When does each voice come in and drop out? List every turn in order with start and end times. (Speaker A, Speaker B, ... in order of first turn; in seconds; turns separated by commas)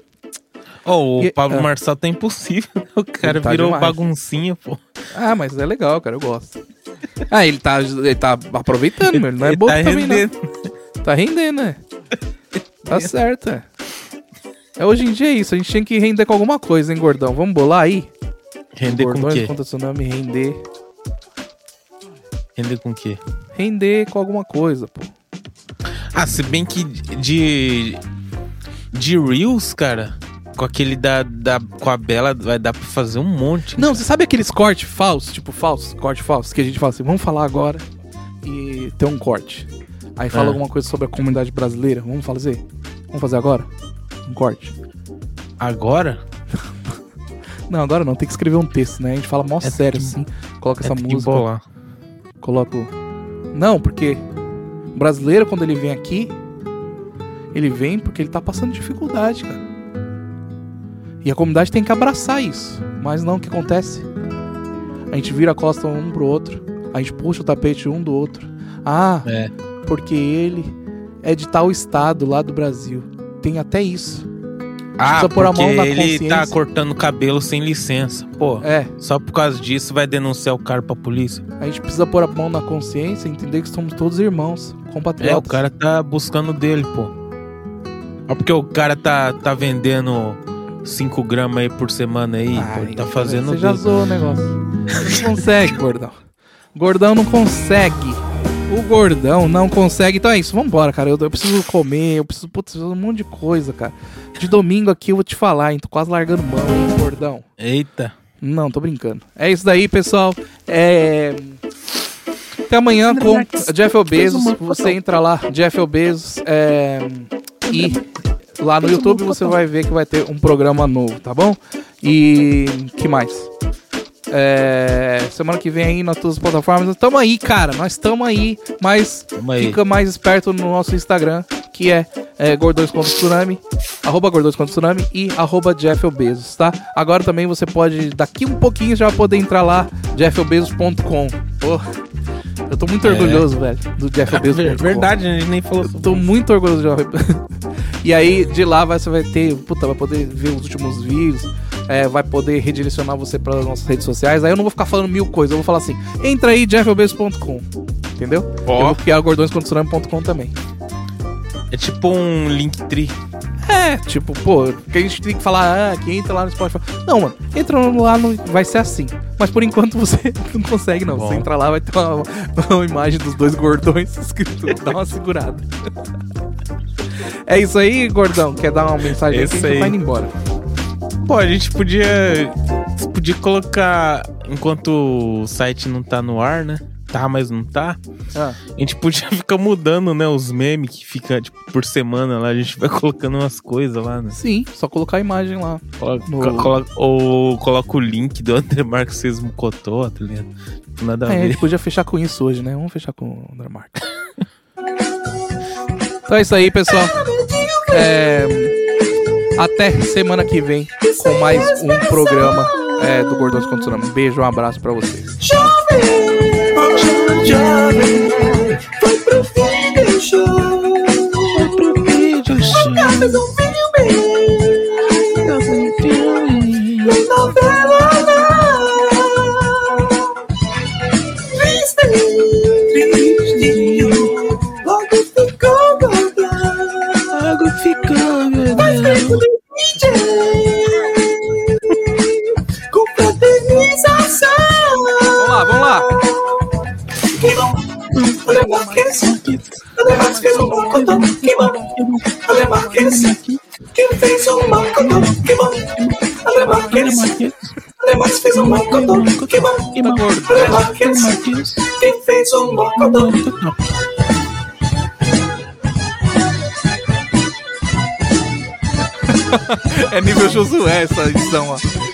Speaker A: 0.8-4.8, Speaker B: 1.2-1.7, Speaker B: 3.2-4.0, Speaker B: 5.1-6.6, Speaker B: 7.3-10.3, Speaker A: 9.1-10.7, Speaker B: 11.0-11.8, Speaker B: 12.8-13.7, Speaker B: 14.8-18.1, Speaker A: 18.7-19.5, Speaker B: 18.8-20.6, Speaker A: 22.6-23.2, Speaker B: 23.5-25.1, Speaker A: 26.1-28.0, Speaker A: 28.9-34.0, Speaker B: 33.8-37.8, Speaker B: 38.4-43.7, Speaker A: 40.3-40.6, Speaker B: 44.3-44.7, Speaker A: 45.6-46.2, Speaker B: 47.7-51.5, Speaker A: 49.6-50.1, Speaker A: 50.8-51.6, Speaker B: 52.4-52.9, Speaker B: 53.5-54.2, Speaker B: 54.9-56.3, Speaker B: 57.5-59.6, Speaker B: 61.2-64.1, Speaker B: 65.1-69.3, Speaker A: 69.2-69.5, Speaker B: 69.8-74.2, Speaker A: 75.0-81.4, Speaker B: 75.0-76.5, Speaker B: 78.6-78.9, Speaker B: 81.6-85.6, Speaker A: 85.2-87.1, Speaker A: 88.3-93.8, Speaker B: 92.5-96.2, Speaker A: 94.9-95.2, Speaker B: 96.7-107.4, Speaker A: 107.6-108.1, Speaker B: 108.4-111.6, Speaker B: 112.7-118.0, Speaker A: 113.1-115.0, Speaker A: 117.6-118.1, Speaker B: 118.6-123.5, Speaker A: 118.8-119.6, Speaker B: 124.3-141.8, Speaker A: 129.3-129.8, Speaker B: 142.7-145.1, Speaker A: 143.0-143.5, Speaker A: 144.3-146.3, Speaker B: 145.9-147.4, Speaker B: 148.0-157.7, Speaker B: 158.2-160.5, Speaker A: 158.6-159.0, Speaker A: 161.7-163.1, Speaker B: 163.6-175.7, Speaker A: 171.1-171.5, Speaker B: 177.2-180.3, Speaker A: 179.2-180.0, Speaker A: 181.2-188.0, Speaker B: 188.3-188.6, Speaker A: 188.7-194.3, Speaker B: 194.3-196.8, Speaker A: 196.0-201.7, Speaker B: 201.3-204.0, Speaker B: 206.3-207.2, Speaker C: 206.9-208.7, Speaker B: 207.9-208.7, Speaker B: 209.6-215.4, Speaker C: 211.0-213.0, Speaker C: 215.4-221.9, Speaker A: 216.8-218.6, Speaker A: 221.5-223.4, Speaker C: 222.6-226.2, Speaker A: 225.4-227.3, Speaker C: 227.0-230.4, Speaker C: 231.4-237.3, Speaker A: 232.9-234.4, Speaker A: 237.3-239.4, Speaker C: 238.7-249.3, Speaker B: 245.4-246.1, Speaker B: 248.4-249.3, Speaker A: 249.2-249.9, Speaker C: 249.9-253.3, Speaker B: 250.0-251.3, Speaker A: 250.6-252.4, Speaker B: 252.6-253.0, Speaker A: 252.9-253.6, Speaker C: 253.9-257.3, Speaker B: 254.6-254.9, Speaker A: 254.9-257.7, Speaker B: 256.6-257.2, Speaker C: 258.0-263.4, Speaker A: 258.5-261.9, Speaker B: 260.0-260.9, Speaker A: 262.9-263.8, Speaker B: 269.3-271.8